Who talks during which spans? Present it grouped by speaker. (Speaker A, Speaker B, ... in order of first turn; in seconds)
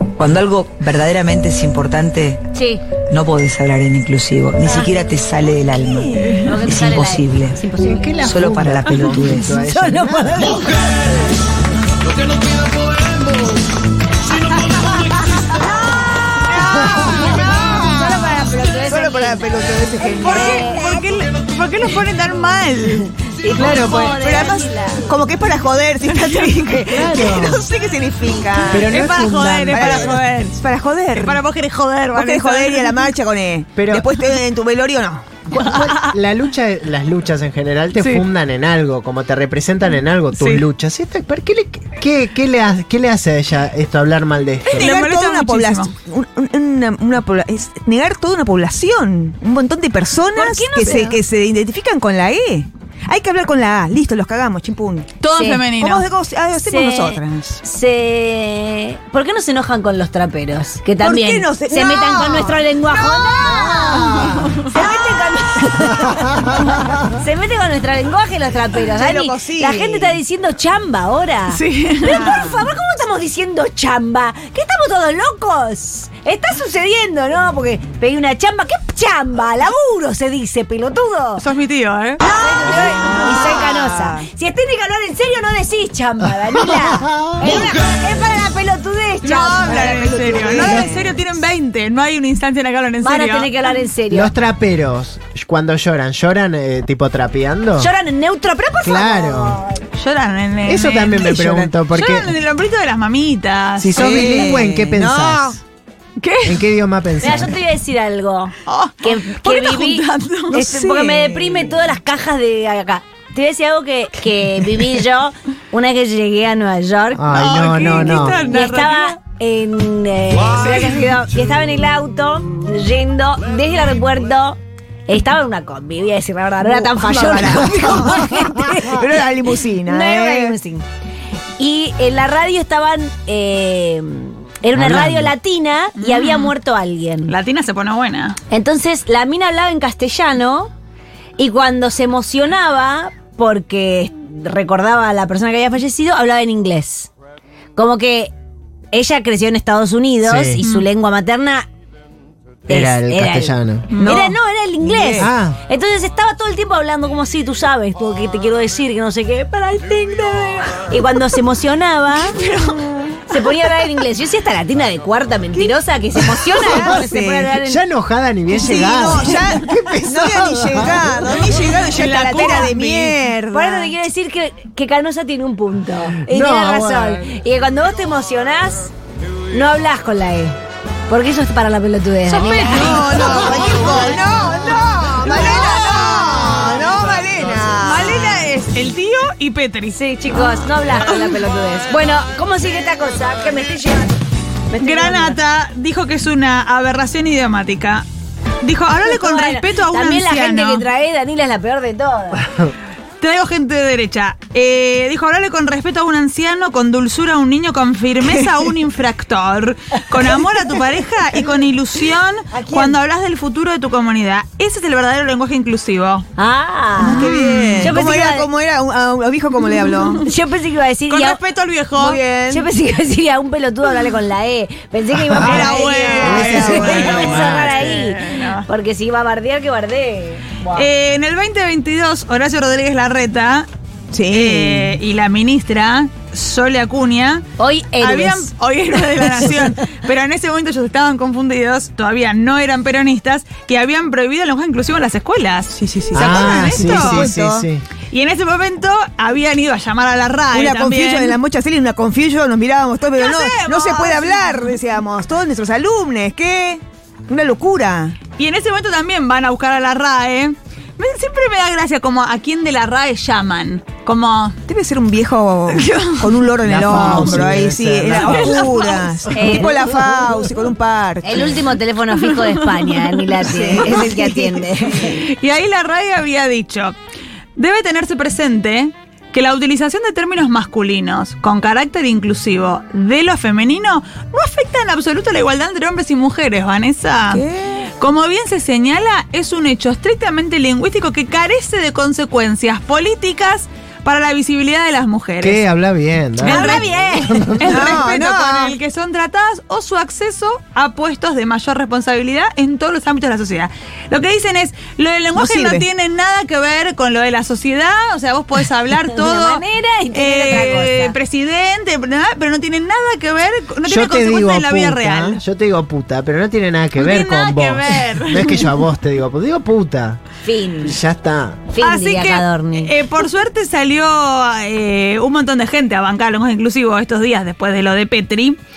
Speaker A: 0.2-2.4, 3.1-7.6, 8.2-9.6
Speaker B: 2.5-2.9, 6.4-8.3, 9.1-10.8, 15.2-15.4, 16.8-19.5, 20.0-21.0, 23.4-25.1, 50.3-51.2, 55.3-55.6, 56.6-64.0, 64.7-81.4, 82.2-90.9, 93.0-94.3, 97.8-99.8, 107.2-124.6, 125.1-129.1, 129.8-130.8, 131.6-137.3, 138.5-140.7, 141.4-147.1, 147.8-148.3, 148.9-151.7, 152.7-162.4, 163.3-167.8, 173.5-178.9, 179.5-180.5, 181.1-183.4, 189.9-194.1, 194.7-195.4, 199.0-202.5, 216.4-218.5, 220.2-221.4, 222.5-230.9, 237.6-238.5, 269.3-269.9, 271.2-275.1, 309.1-311.1, 320.4-321.0, 321.7-322.9
Speaker C: 5.8-6.7, 16.6-17.9, 18.8-20.7, 23.6-31.4, 32.1-35.4, 44.6-55.1, 55.6-57.6, 61.0-65.2, 68.9-70.2, 72.0-72.6, 82.5-84.2, 89.6-91.2, 103.9-105.6, 110.6-111.8, 126.6-130.6, 153.9-155.3, 162.2-163.2, 165.5-167.6, 168.5-173.9, 182.4-188.5, 208.2-208.7, 212.5-213.0, 217.0-220.2, 221.9-222.7, 225.3-227.3, 234.1-235.0, 245.7-247.7, 250.5-258.2, 264.7-271.6, 273.4-275.1, 287.3-287.8, 296.4-296.9, 297.6-298.8, 305.3-305.9
Speaker D: 7.8-10.6, 26.9-27.6, 28.7-30.2, 33.7-34.1, 35.5-44.9, 63.6-64.5, 86.6-87.6, 94.1-97.9, 98.8-99.6, 100.7-102.3, 103.8-105.6, 106.4-107.5, 117.1-118.4, 134.7-135.3, 150.2-150.6, 152.7-153.9, 155.2-155.6, 166.7-167.0, 167.6-171.1, 176.2-177.3, 225.4-225.7, 226.2-228.0, 246.1-247.8, 266.6-268.7, 295.4-297.8, 313.8-320.2, 320.8-321.7
Speaker E: 20.2-23.1, 26.1-26.6, 28.8-30.6, 31.1-33.0, 35.5-36.1, 38.0-38.2, 40.4-40.6, 44.7-45.9, 55.2-56.0, 71.5-72.4, 81.4-82.2, 89.2-93.5, 100.0-104.1, 106.2-106.6, 108.7-110.8, 117.3-119.2, 136.0-136.5, 137.3-138.4, 150.6-150.9, 153.9-154.2, 171.9-173.2, 182.3-183.4, 185.4-186.3, 187.8-190.0, 194.8-198.0, 198.6-200.8, 203.2-216.2, 217.4-217.9, 221.1-222.2, 225.4-228.6, 230.7-233.7, 234.3-237.4, 238.0-247.3, 248.1-251.3, 253.2-254.8, 258.4-264.6, 265.7-266.3, 266.9-267.4, 268.1-269.5, 272.2-273.0, 275.0-276.9, 277.6-287.4, 288.0-295.6, 296.4-315.4, 316.9-318.7, 321.8-328.6